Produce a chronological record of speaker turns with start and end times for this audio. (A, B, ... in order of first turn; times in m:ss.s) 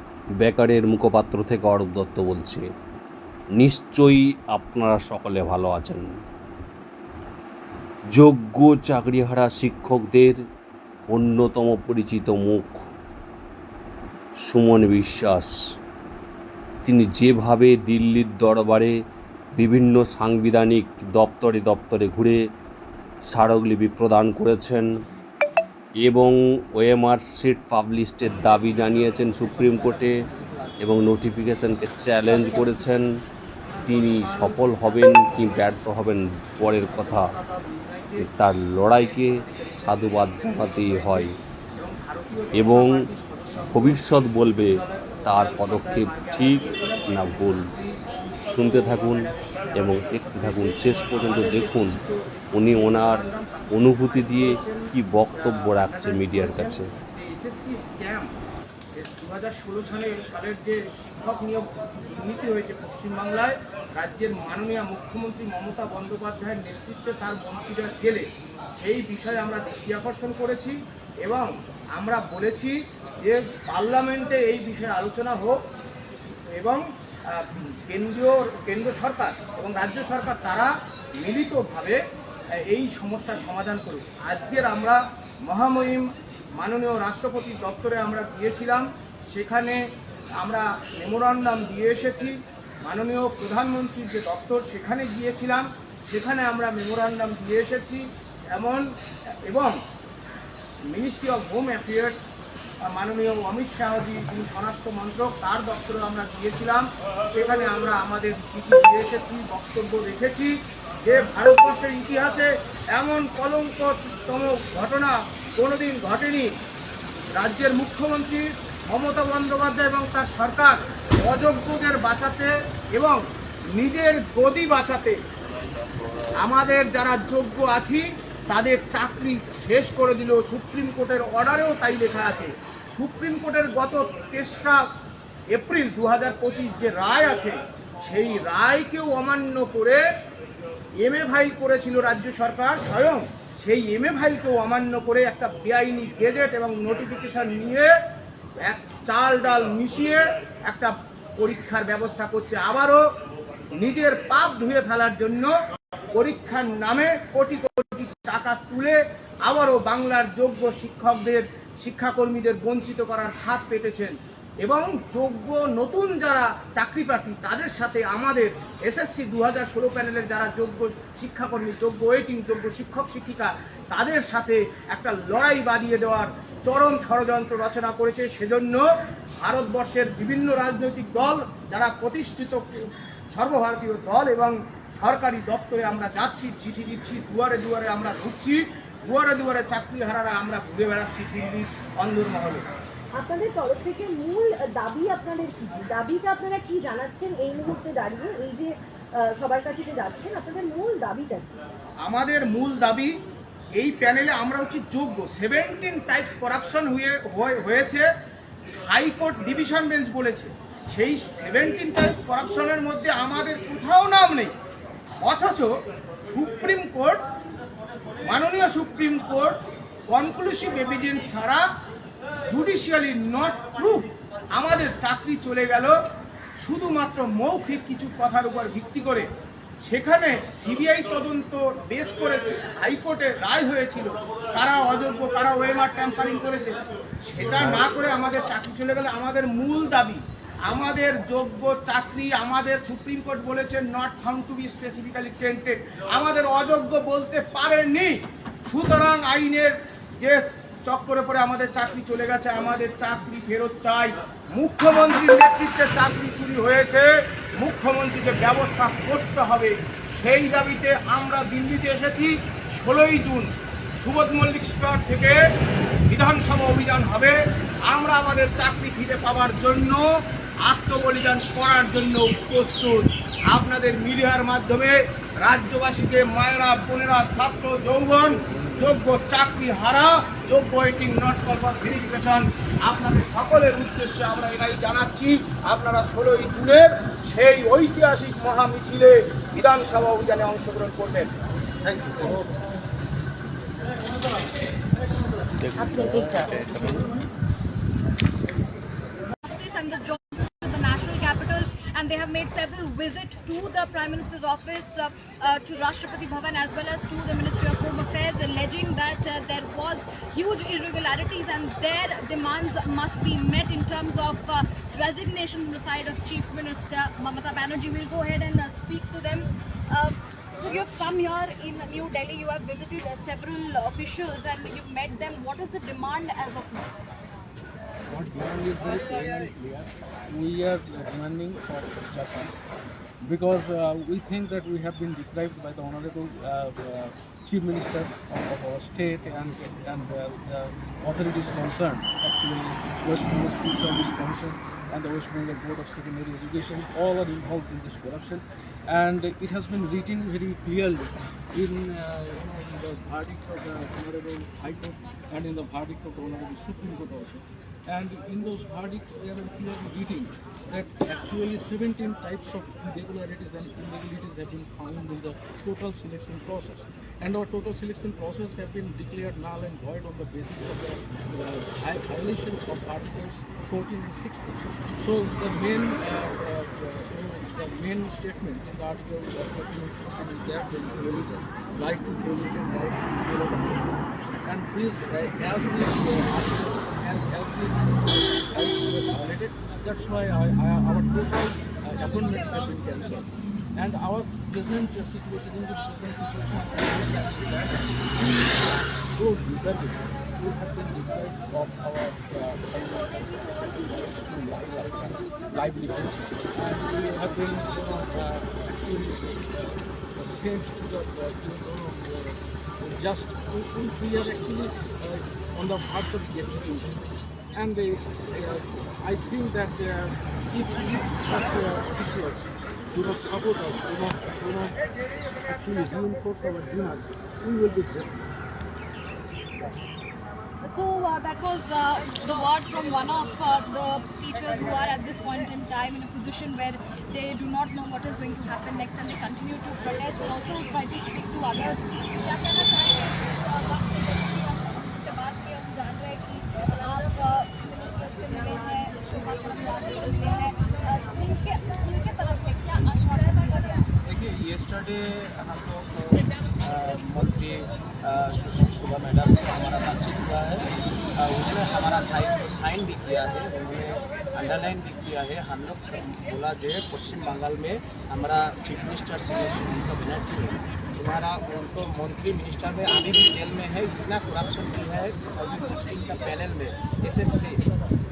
0:00.4-0:02.6 A
0:03.6-0:06.1 A
0:08.1-0:10.4 A
0:11.1-0:12.8 A
0:14.4-0:15.5 A
0:16.8-0:18.9 A
0:19.6-0:22.4 A
0:23.3-0:24.8 A
0:26.0-0:30.2 A
0:29.0-0:30.8 B
0:30.8-0:33.1 A
0:32.3-0:32.7 B
0:33.7-0:35.9 B
0:33.8-0:37.3 A
0:36.9-0:38.3 B
0:38.2-0:41.3 A
0:38.8-0:48.0 B
0:42.5-0:43.0 A
0:43.7-0:47.7 A
0:48.5-0:52.0 A
0:48.6-0:58.3 B
0:52.5-0:56.8 A
0:58.9-1:08.2 B
1:08.8-1:15.6 B
1:16.5-1:22.0 B
1:22.6-1:26.0 B
1:26.6-1:29.8 B
1:30.4-1:38.9 B
1:39.5-1:39.8 B
1:40.9-1:56.5 B
1:57.3-2:03.2 B
2:03.7-2:05.2 B
2:06.4-2:14.8 B
2:15.5-2:20.0 B
2:21.0-2:27.9 B
2:28.6-2:33.0 B
2:33.7-2:35.5 B
2:36.1-2:58.8 B
2:59.4-3:12.7 B
3:13.1-3:21.5 C
3:22.0-3:23.1 B
3:23.7-3:28.1 B
3:28.8-3:34.5 B
3:35.2-3:35.7 B
3:36.2-3:37.2 B
3:38.2-3:39.6 B
3:40.1-3:41.6 B
3:42.5-3:45.9 B
3:46.6-3:49.3 B
3:49.8-4:08.1 B
4:08.7-4:23.5 B
4:24.0-4:25.4 B
4:26.1-4:30.0 B
4:30.6-4:51.3 B
4:38.5-4:38.9 D
4:55.8-4:56.4 C
4:59.4-5:26.9 E
5:28.1-5:32.5 D
5:33.2-6:38.6 D
6:39.1-6:49.4 D
6:50.2-6:57.0 D
6:57.5-7:04.8 D
7:05.4-7:08.2 D
7:10.6-7:33.9 E
7:34.0-7:57.6 B